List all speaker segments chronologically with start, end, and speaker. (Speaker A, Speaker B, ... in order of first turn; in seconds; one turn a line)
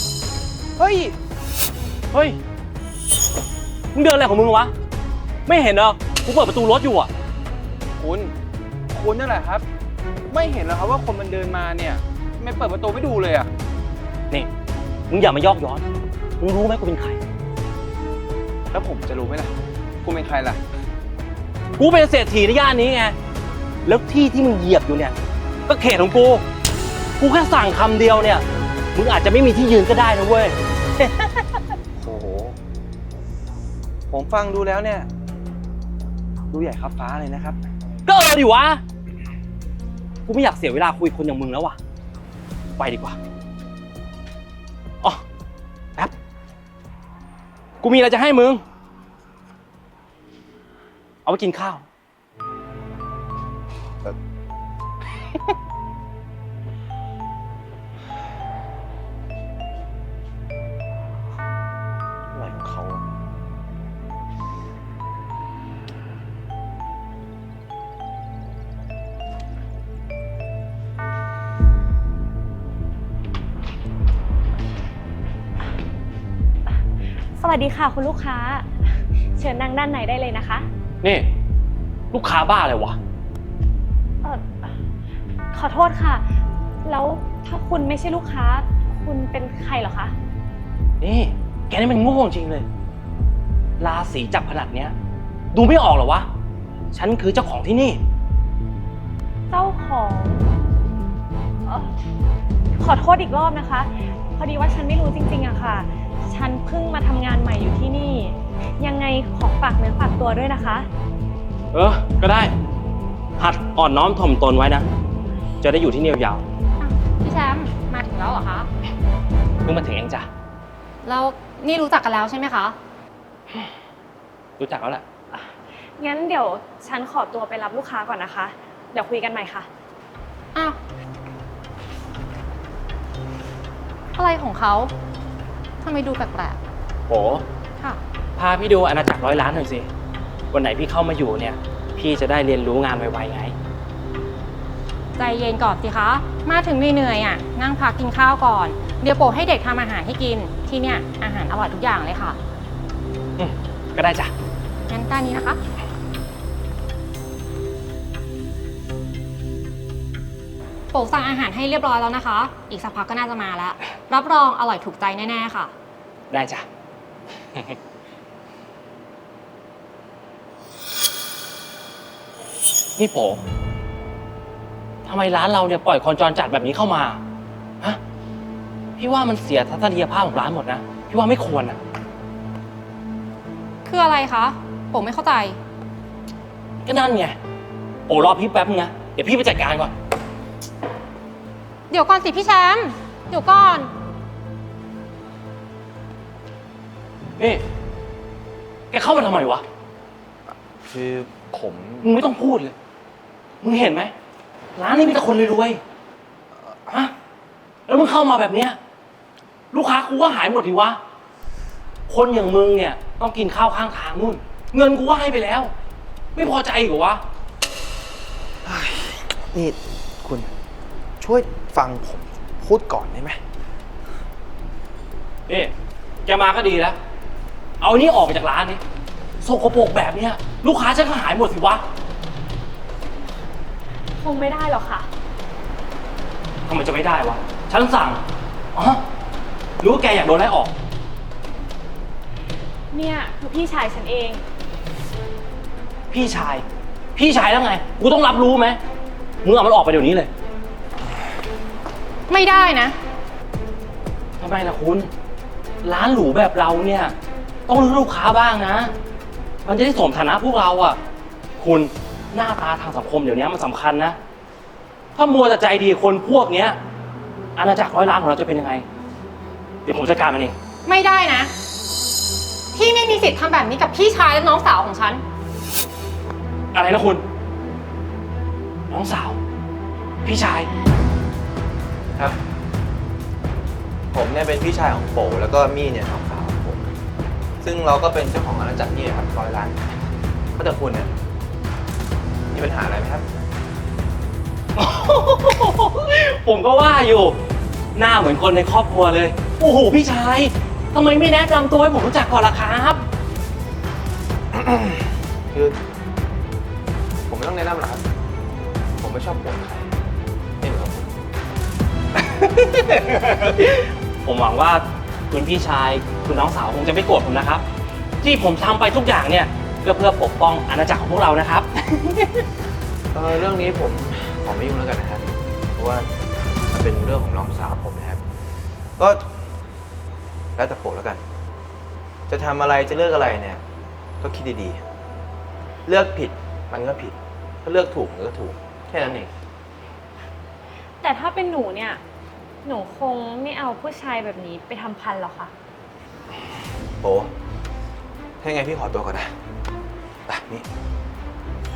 Speaker A: 0.8-1.1
Speaker A: 2.1-2.4
Speaker B: 3.9-4.7
Speaker B: 5.5-7.1
Speaker A: 8.0-8.3
Speaker A: 8.9-9.6
Speaker A: 10.3-13.5
Speaker B: 15.1-15.8
Speaker B: 16.4-17.2
Speaker A: 18.7-20.6
Speaker B: 21.8-23.1
Speaker B: 23.8-26.4
Speaker B: 27.2-28.4
Speaker B: 28.9-31.5
Speaker A: 34.1-35.1
Speaker A: 36.5-37.6
Speaker B: 38.0-38.8
Speaker B: 40.2-41.8
Speaker B: 42.8-43.2
Speaker B: 47.8-48.6
Speaker B: 51.2-51.8
Speaker C: 62.3-63.0
Speaker D: 77.3-80.7
Speaker B: 81.0-81.3
Speaker B: 82.1-83.0
Speaker D: 84.2-84.7
Speaker D: 85.5-86.2
Speaker D: 86.8-90.1
Speaker B: 91.0-92.7
Speaker B: 93.8-94.9
Speaker B: 95.5-96.3
Speaker B: 96.9-98.0
Speaker D: 99.5-100.5
Speaker D: 101.6-102.0
Speaker D: 102.8-110.9
Speaker B: 111.7-112.5
Speaker B: 113.4-114.8
Speaker B: 115.6-116.4
Speaker E: 116.8-118.7
Speaker B: 119.6-120.3
Speaker E: 121.0-122.8
Speaker B: 124.6-125.0
Speaker D: 125.3-129.7
Speaker E: 134.2-134.9
Speaker E: 135.8-136.6
Speaker B: 137.1-137.4
Speaker B: 138.4-139.9
Speaker B: 140.5-143.5
Speaker E: 145.2-152.4
Speaker B: 153.4-154.3
Speaker E: 154.9-155.6
Speaker E: 160.9-165.7
Speaker B: 166.3-166.6
Speaker B: 173.0-173.4
Speaker B: 175.0-177.2
Speaker B: 179.0-181.8
Speaker E: 183.8-185.6
Speaker B: 186.8-187.3
Speaker B: 188.1-189.9
Speaker E: 191.9-193.9
Speaker B: 197.4-197.6
Speaker B: 198.9-199.6
Speaker C: 200.8-202.1
Speaker B: 202.0-202.7
Speaker B: 203.6-204.1
Speaker B: 204.8-205.8
Speaker B: 207.9-208.8
Speaker B: 209.7-211.0
Speaker B: 212.1-215.7
Speaker B: 216.3-217.2
Speaker C: 218.6-220.5
Speaker C: 221.2-223.4
Speaker B: 225.5-225.7
Speaker B: 226.2-226.9
Speaker B: 227.8-228.8
Speaker B: 229.4-231.8
Speaker D: 234.2-235.1
Speaker B: 236.7-238.2
Speaker B: 238.7-239.0
Speaker B: 239.8-240.7
Speaker D: 242.9-244.4
Speaker B: 246.1-246.6
Speaker B: 247.1-248.8
Speaker B: 249.4-250.3
Speaker E: 252.3-252.9
Speaker B: 254.4-255.1
Speaker B: 255.8-257.1
Speaker B: 257.7-258.9
Speaker B: 259.6-261.0
Speaker B: 261.6-264.2
Speaker B: 265.1-266.8
Speaker B: 267.6-268.8
Speaker B: 269.8-270.5
Speaker E: 270.8-271.5
Speaker E: 272.7-275.2
Speaker B: 276.7-277.2
Speaker B: 278.9-279.4
Speaker B: 280.2-280.7
Speaker C: 284.1-286.8
Speaker C: 287.6-289.8
Speaker C: 290.6-291.1
Speaker C: 292.5-293.3
Speaker B: 294.8-297.4
Speaker B: 297.9-303.0
Speaker C: 304.5-305.8
Speaker C: 307.3-308.0
Speaker C: 308.9-309.9
Speaker C: 310.6-311.1
Speaker B: 312.4-317.6
Speaker B: 318.2-322.4
Speaker C: 323.1-326.1
Speaker C: 326.7-328.2
Speaker C: 329.0-329.2
Speaker C: 330.6-331.2
Speaker C: 332.3-333.6
Speaker C: 334.2-334.8
Speaker C: 335.9-339.3
Speaker D: 341.0-342.0
Speaker D: 342.6-345.5
Speaker C: 347.0-347.3
Speaker C: 348.4-349.3
Speaker C: 350.3-350.6